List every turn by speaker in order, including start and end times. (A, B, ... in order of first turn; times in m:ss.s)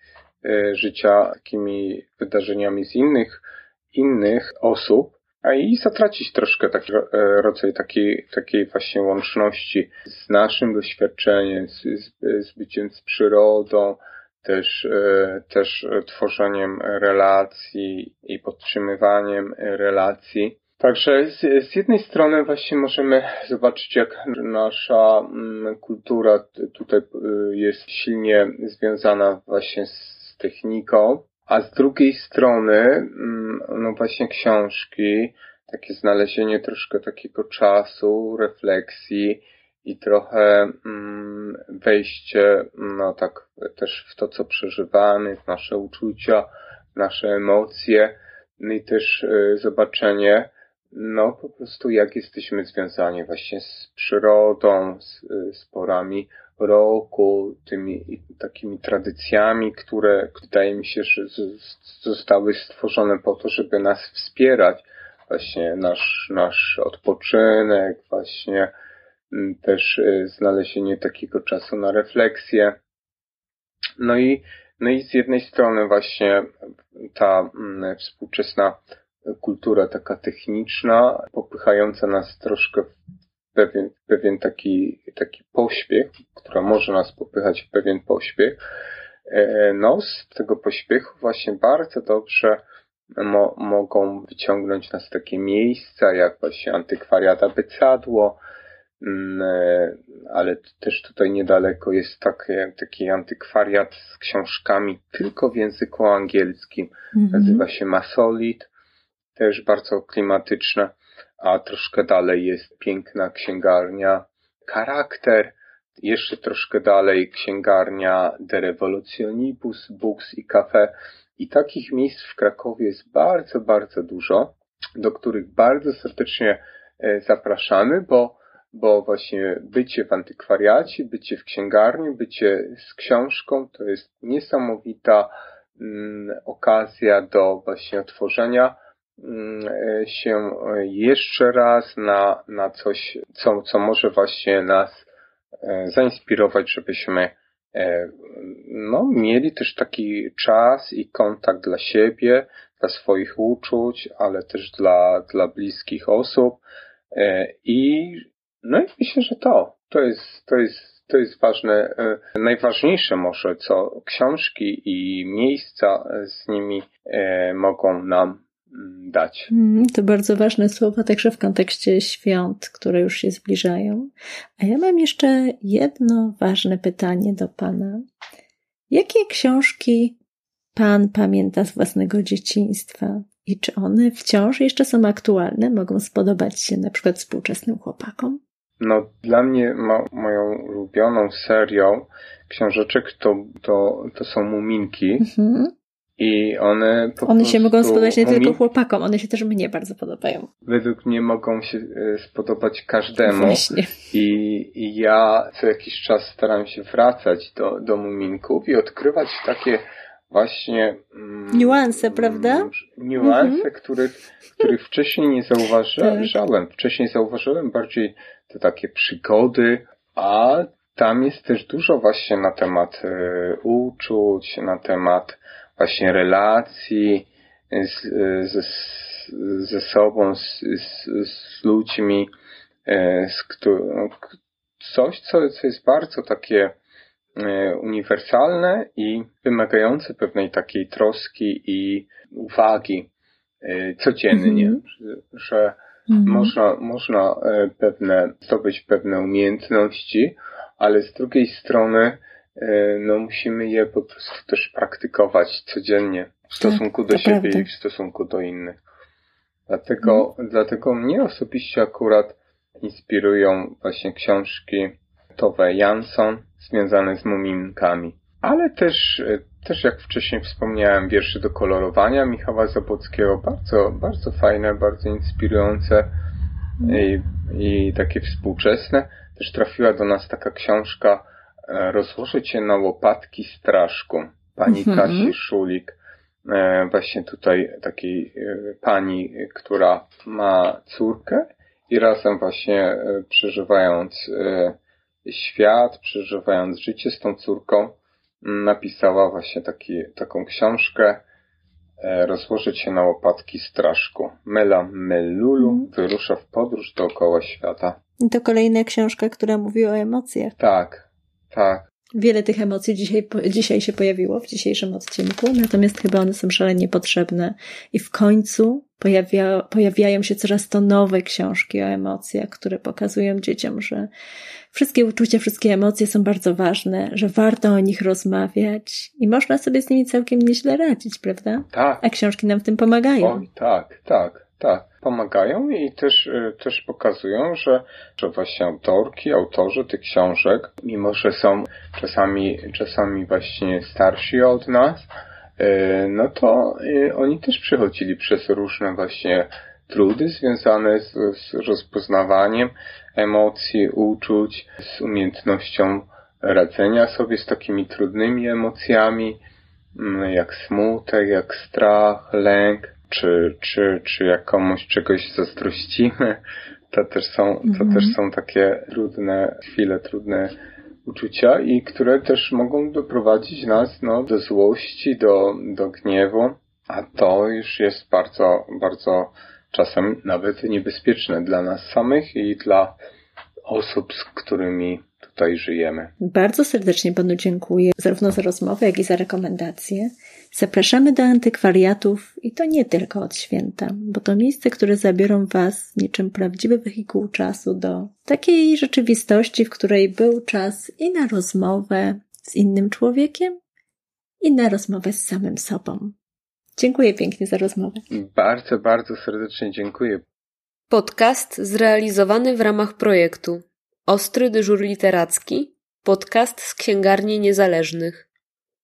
0:00.4-1:08.7 A
1:09.3-1:12.8 A
1:14.0-1:16.5 A
1:17.0-1:22.9 A
1:23.5-1:28.6 A
1:29.3-1:32.6 A
1:33.1-1:38.4 A
1:39.0-1:48.7 A
1:47.1-1:47.6 B
1:49.4-2:25.1 A
2:25.6-2:49.5 A
2:49.5-2:58.0 B
2:58.9-3:00.2 B
3:00.7-3:08.4 B
3:08.8-3:15.3 A
3:15.2-3:15.7 B
3:16.2-3:18.6 A
3:17.2-3:20.5 B
3:20.6-3:52.3 A
3:23.2-3:23.9 B
3:31.5-3:33.6 B
3:36.0-3:36.3 B
3:52.8-3:54.2 A
3:54.8-3:56.8 A
3:57.3-4:03.1 A
4:03.6-4:18.8 A
4:04.3-4:04.8 B
4:06.1-4:06.5 B
4:16.6-4:17.7 B
4:19.7-4:36.1 A
4:36.8-5:01.2 A
4:44.7-4:45.3 B
5:02.0-5:08.0 A
5:05.6-5:05.9 B
5:08.2-5:10.5 B
5:10.6-5:11.8 A
5:12.1-5:24.1 B
5:24.7-5:33.4 B
5:31.7-5:32.0 A
5:33.2-5:59.4 A
5:59.9-6:10.5 A
6:07.6-6:08.2 B
6:11.0-6:23.0 A
6:23.6-6:26.1 A
6:26.2-6:43.5 B
6:44.4-6:46.1 B
6:46.8-6:48.0 B
6:48.1-6:50.2 A
6:50.9-6:58.3 C